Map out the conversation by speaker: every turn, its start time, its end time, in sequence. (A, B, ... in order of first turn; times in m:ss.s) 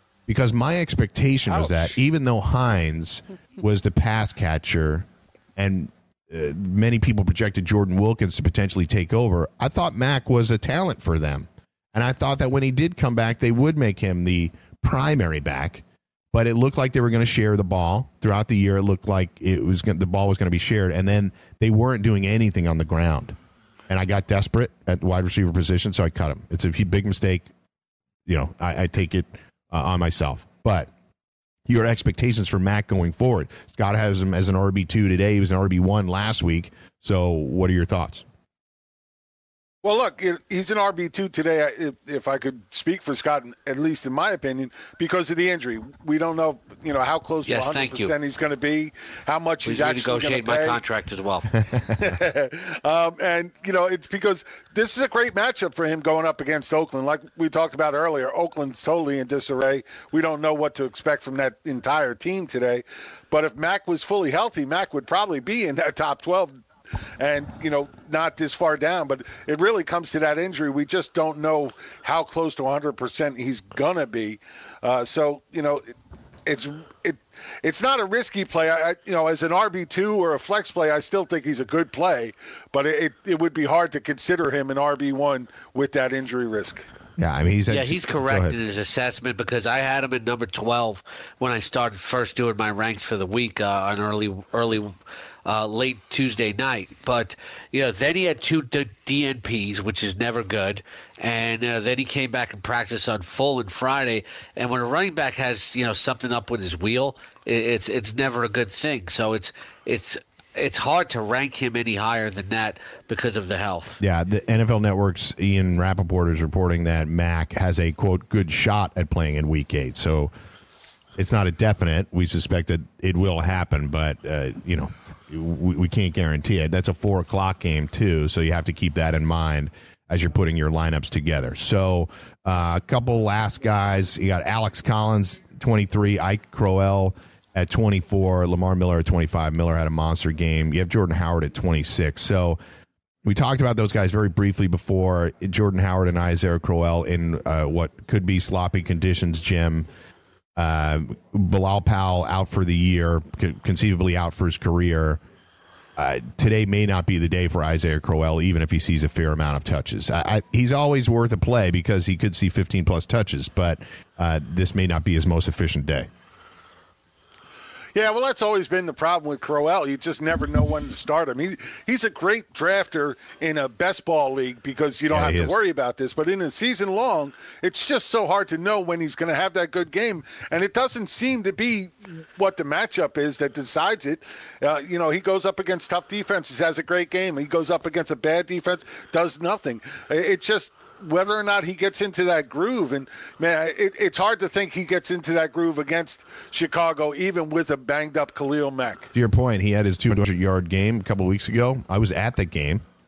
0:00.3-0:23.4 A
0:01.5-0:01.9 B
0:23.9-0:27.5 A
0:28.3-0:30.9 A
0:31.7-0:38.2 A
0:39.8-0:50.8 B
0:47.4-0:48.1 C
0:49.6-0:51.5 C
0:51.9-1:06.6 B
1:07.2-1:15.9 B
1:16.4-1:26.8 B
1:27.2-1:28.6 A
1:27.7-1:34.9 C
1:35.4-1:54.0 C
1:54.0-2:00.3 A
2:01.2-2:22.6 A
2:23.2-2:29.9 A
2:30.6-2:35.2 A
2:36.0-2:46.1 A
2:47.9-3:19.1 B
2:55.1-2:55.6 A
3:19.1-3:22.8 A